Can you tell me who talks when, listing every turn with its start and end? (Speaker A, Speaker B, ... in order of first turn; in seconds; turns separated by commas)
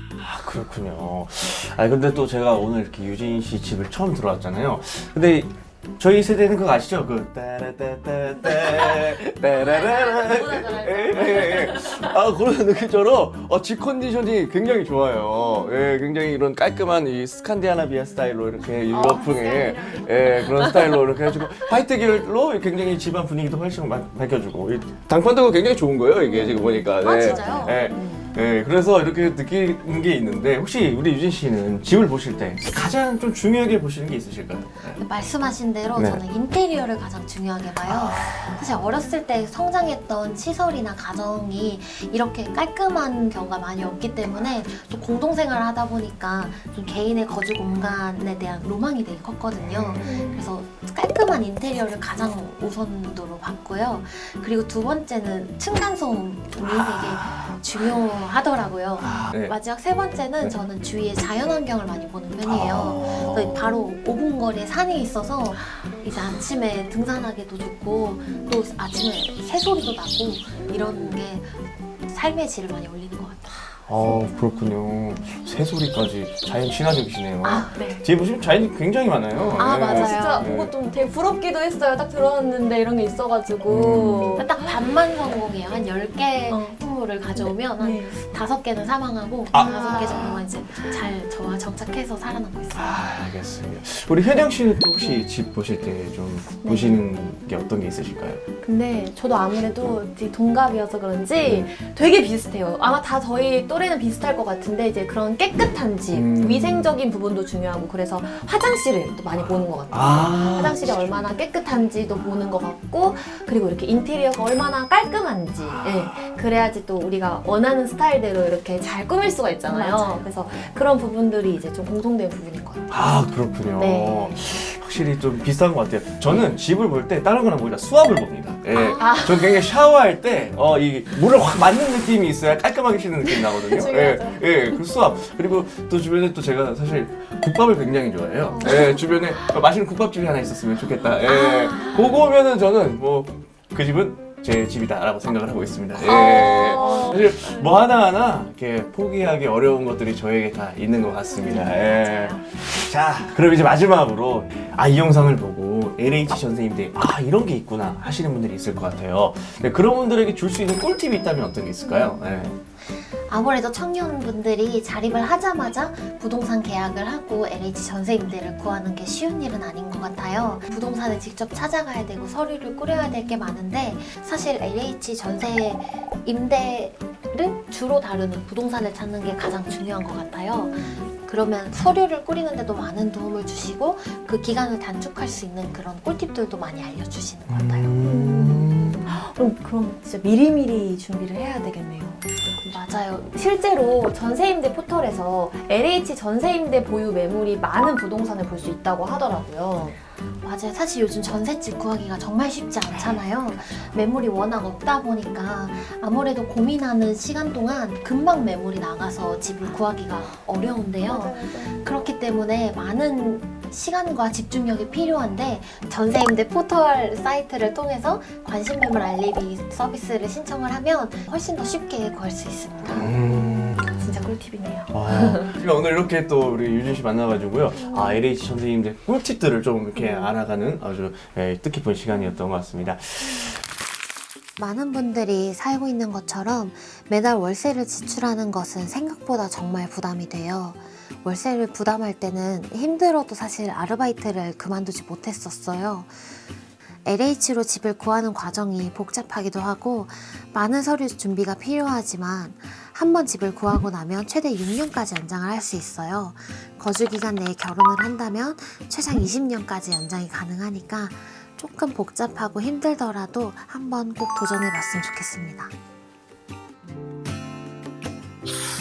Speaker A: 0.2-35.0, Speaker B: 8.5-12.1, Speaker B: 18.9-21.0, Speaker B: 26.5-28.3, Speaker C: 27.0-27.9, Speaker C: 35.0-74.4, Speaker A: 36.0-36.2, Speaker A: 37.8-38.7, Speaker A: 49.6-50.0, Speaker B: 50.0-50.5, Speaker A: 56.6-57.6, Speaker A: 59.0-59.5, Speaker A: 62.4-63.6, Speaker A: 73.9-80.7, Speaker C: 77.4-78.0, Speaker C: 79.6-80.5, Speaker B: 79.6-84.8, Speaker A: 83.7-84.4, Speaker C: 84.4-93.0, Speaker B: 86.5-86.8, Speaker B: 87.4-88.2, Speaker A: 89.5-90.4, Speaker B: 89.5-90.3, Speaker A: 92.7-98.4, Speaker B: 96.6-97.0, Speaker B: 98.6-122.9, Speaker A: 101.4-101.7, Speaker A: 106.1-106.9, Speaker A: 109.9-111.3, Speaker A: 115.6-116.4, Speaker C: 119.7-120.3, Speaker A: 122.9-162.6, Speaker B: 123.8-124.4, Speaker C: 128.7-129.2, Speaker B: 129.0-129.7, Speaker B: 133.3-134.4, Speaker B: 138.5-139.4, Speaker B: 141.2-142.1, Speaker C: 141.4-141.9, Speaker B: 146.0-147.8, Speaker C: 146.8-147.1, Speaker C: 151.4-152.4, Speaker C: 162.9-187.9, Speaker B: 180.6-181.1, Speaker A: 187.5-189.2, Speaker B: 188.0-200.0, Speaker C: 192.6-193.3, Speaker C: 200.4-223.2, Speaker B: 211.0-211.8, Speaker A: 222.9-224.0, Speaker B: 223.9-225.5, Speaker A: 224.9-233.6, Speaker B: 227.8-228.2, Speaker B: 229.9-230.3, Speaker C: 234.6-246.2, Speaker C: 247.1-265.7